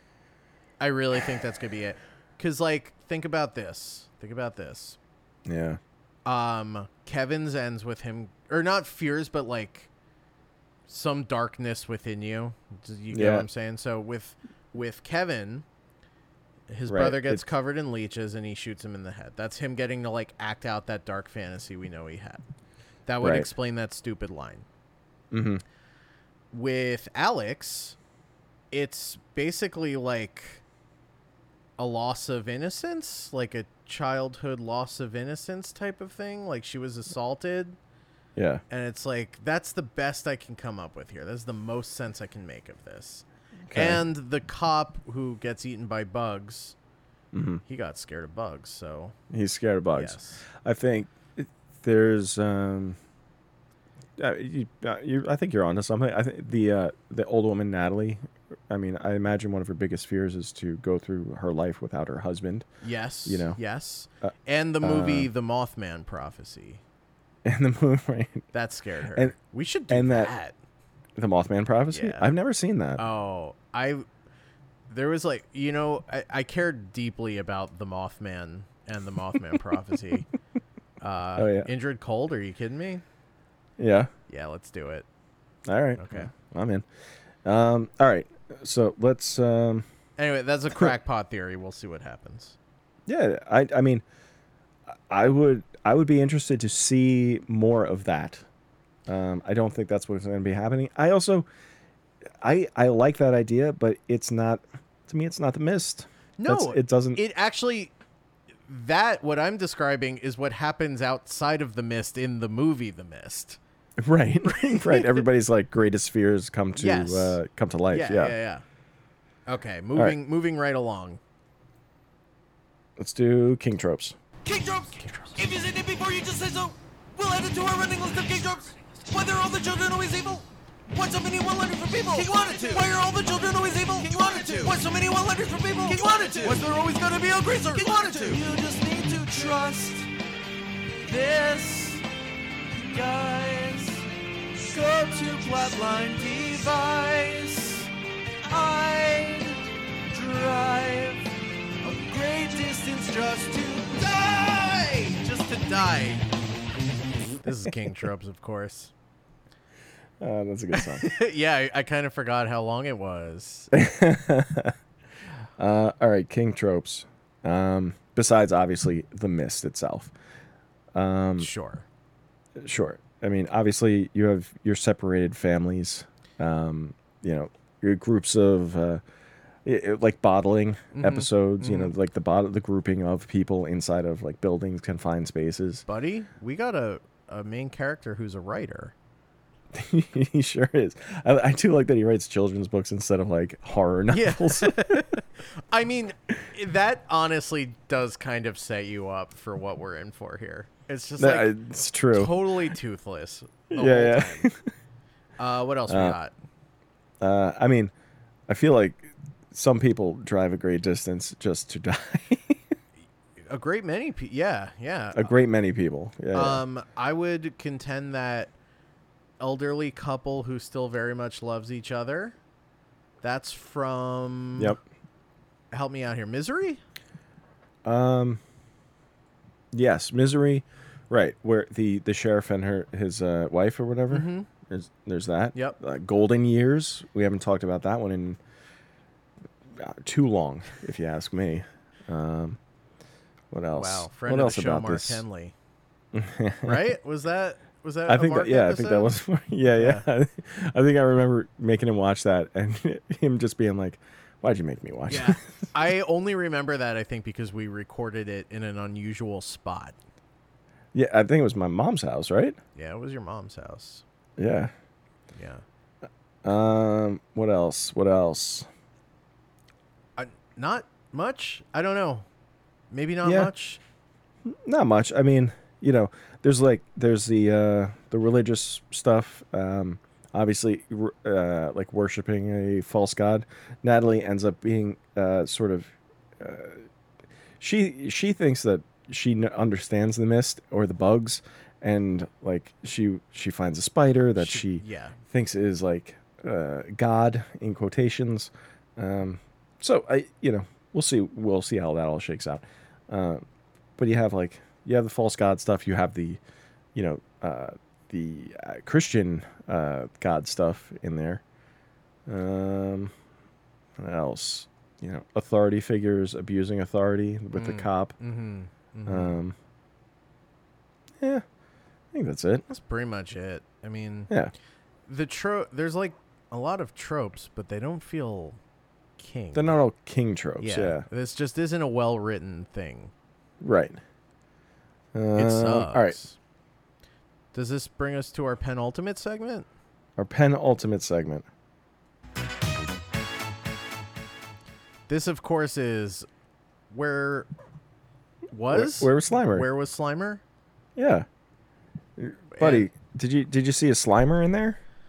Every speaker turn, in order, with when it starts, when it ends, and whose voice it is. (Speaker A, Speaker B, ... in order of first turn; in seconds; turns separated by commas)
Speaker A: 0.8-5.0, Speaker B: 5.5-5.8, Speaker A: 6.3-9.9, Speaker A: 10.9-15.7, Speaker B: 13.1-13.5, Speaker A: 16.7-22.4, Speaker B: 16.9-17.4, Speaker A: 23.1-24.6, Speaker B: 23.2-23.5, Speaker B: 25.3-25.6, Speaker A: 26.5-28.0, Speaker A: 28.7-30.6, Speaker A: 31.8-37.8, Speaker B: 38.4-38.6, Speaker A: 38.7-46.8, Speaker B: 43.7-44.0, Speaker B: 47.3-47.6, Speaker A: 47.6-49.1, Speaker B: 49.3-53.0, Speaker A: 49.9-50.4, Speaker B: 54.2-62.7, Speaker A: 62.8-66.8, Speaker B: 63.3-63.6, Speaker B: 64.2-65.3, Speaker B: 67.5-68.5, Speaker A: 68.5-70.5, Speaker B: 69.9-70.3, Speaker B: 71.2-73.0, Speaker A: 71.9-72.3, Speaker A: 73.0-74.1, Speaker A: 74.9-80.3, Speaker A: 81.0-83.0, Speaker B: 81.4-81.7, Speaker B: 83.8-84.1, Speaker A: 84.3-85.1, Speaker B: 85.7-86.8, Speaker A: 86.0-86.3, Speaker B: 87.5-89.9, Speaker A: 90.2-92.6, Speaker B: 93.1-94.0, Speaker B: 95.1-98.5, Speaker B: 99.1-101.5, Speaker B: 102.4-107.2, Speaker A: 106.4-107.9, Speaker A: 108.7-113.6, Speaker B: 114.0-118.3, Speaker A: 114.5-115.3, Speaker A: 116.8-117.4, Speaker A: 117.9-118.6, Speaker A: 119.5-121.2, Speaker B: 123.0-124.2, Speaker C: 124.4-140.1, Speaker A: 125.0-125.4, Speaker A: 132.7-133.0, Speaker A: 134.2-134.8, Speaker A: 136.2-138.4, Speaker C: 141.0-142.0, Speaker C: 142.7-147.9, Speaker C: 148.4-151.3, Speaker C: 151.8-154.1, Speaker A: 154.0-156.2, Speaker A: 157.4-158.9, Speaker B: 160.2-161.1, Speaker A: 160.7-163.7, Speaker B: 163.7-164.8, Speaker B: 165.6-170.1, Speaker B: 170.9-171.5, Speaker A: 171.4-171.8, Speaker B: 172.6-179.0, Speaker B: 179.7-185.8, Speaker A: 180.9-181.9, Speaker A: 185.9-188.9, Speaker B: 189.7-195.0, Speaker A: 194.1-201.5, Speaker B: 201.2-202.5, Speaker A: 202.1-204.5, Speaker B: 203.7-204.7, Speaker A: 205.4-206.3, Speaker B: 205.9-206.2, Speaker B: 207.2-207.9, Speaker B: 208.5-212.6, Speaker A: 213.5-215.3, Speaker B: 215.2-216.6, Speaker A: 216.3-218.5, Speaker A: 219.4-222.4, Speaker A: 223.2-224.8, Speaker A: 225.7-226.8, Speaker B: 227.8-228.4, Speaker B: 229.7-238.4, Speaker A: 234.1-234.5, Speaker B: 239.8-242.6, Speaker B: 243.5-245.2, Speaker A: 243.7-245.6, Speaker B: 246.1-246.9, Speaker A: 246.6-249.1, Speaker B: 248.1-255.4, Speaker A: 249.8-250.1, Speaker A: 255.1-260.0, Speaker B: 260.9-262.6, Speaker A: 262.8-264.0, Speaker B: 264.4-264.7, Speaker A: 265.4-265.6, Speaker B: 266.4-268.7, Speaker A: 270.2-272.3, Speaker A: 272.9-273.8, Speaker B: 273.2-273.5, Speaker B: 274.5-286.9, Speaker B: 287.6-303.4, Speaker A: 294.4-295.2, Speaker B: 304.0-306.4, Speaker B: 306.9-311.4, Speaker B: 312.3-313.1, Speaker B: 314.0-318.1, Speaker A: 317.5-319.4, Speaker B: 319.1-319.6, Speaker B: 322.1-322.6, Speaker A: 322.7-324.3, Speaker A: 325.1-328.6, Speaker A: 329.2-329.8, Speaker B: 329.5-331.1, Speaker A: 330.6-333.1, Speaker B: 333.6-334.0, Speaker B: 335.1-336.2, Speaker A: 335.4-336.4, Speaker A: 337.5-339.7, Speaker B: 340.2-341.5, Speaker A: 345.1-346.3, Speaker A: 346.9-347.5, Speaker A: 348.5-350.4, Speaker B: 348.7-349.7, Speaker B: 351.0-351.3, Speaker B: 352.2-354.8, Speaker A: 352.5-352.9